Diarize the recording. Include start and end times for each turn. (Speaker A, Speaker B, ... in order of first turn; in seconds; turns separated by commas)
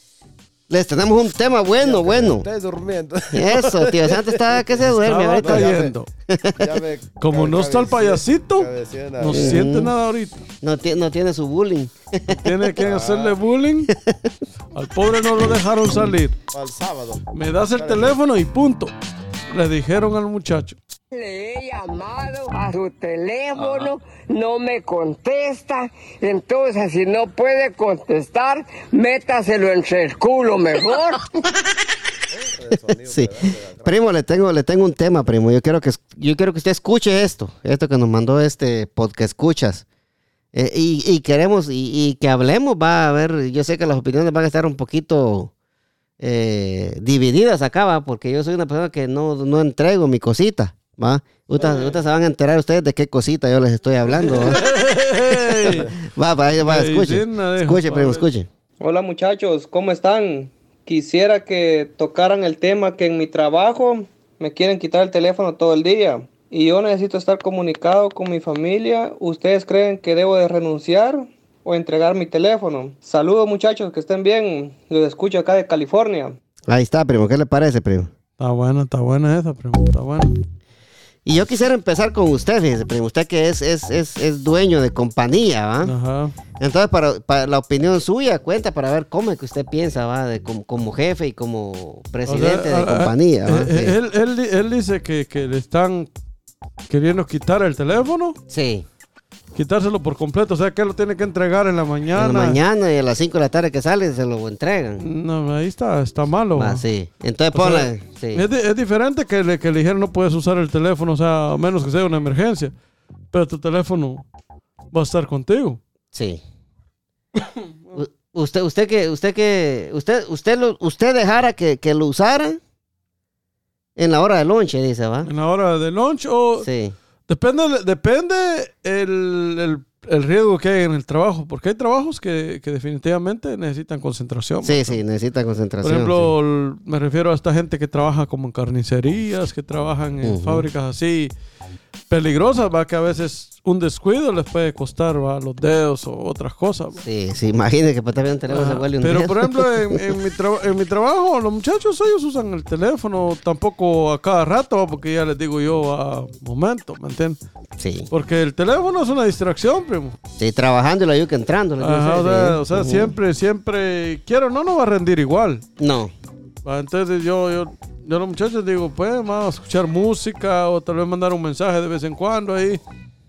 Speaker A: 0.7-2.5, Speaker B: 1.8-4.7, Speaker A: 3.3-5.7, Speaker C: 4.8-6.1, Speaker B: 5.4-5.9, Speaker A: 6.3-6.7, Speaker B: 6.5-9.6, Speaker C: 7.2-10.4, Speaker A: 9.3-9.9, Speaker A: 10.6-12.7, Speaker C: 12.3-13.9, Speaker B: 12.8-13.4, Speaker A: 13.9-14.3, Speaker C: 14.7-16.4, Speaker B: 16.5-18.2, Speaker C: 17.3-18.9, Speaker C: 19.5-20.8, Speaker D: 21.1-31.2, Speaker B: 32.3-34.0, Speaker A: 33.8-39.9, Speaker A: 40.5-45.5, Speaker A: 46.2-54.6, Speaker C: 51.6-51.9, Speaker C: 54.1-55.9, Speaker A: 55.5-58.5, Speaker C: 56.6-58.3, Speaker E: 58.8-76.4, Speaker A: 76.7-78.1, Speaker C: 78.4-80.4, Speaker A: 81.3-85.9, Speaker C: 85.8-86.3, Speaker A: 86.6-94.0, Speaker C: 92.3-96.1, Speaker C: 96.9-98.4, Speaker A: 98.5-98.9, Speaker C: 99.5-102.6, Speaker A: 102.2-105.0, Speaker C: 105.0-106.8, Speaker A: 106.5-108.4, Speaker C: 107.5-112.7, Speaker C: 113.3-114.2, Speaker C: 114.9-115.8, Speaker A: 116.1-116.4, Speaker C: 117.6-118.0, Speaker A: 118.0-122.6, Speaker A: 124.0-125.3, Speaker C: 125.2-126.7, Speaker A: 126.6-127.0, Speaker C: 127.3-135.0, Speaker A: 134.6-136.3, Speaker C: 135.8-141.3, Speaker A: 140.2-140.7, Speaker C: 142.1-147.0, Speaker A: 147.0-150.0, Speaker C: 148.5-157.4, Speaker A: 157.8-158.1, Speaker C: 158.1-160.2, Speaker A: 160.4-163.2, Speaker C: 161.8-165.6, Speaker A: 165.8-166.1, Speaker C: 166.7-172.8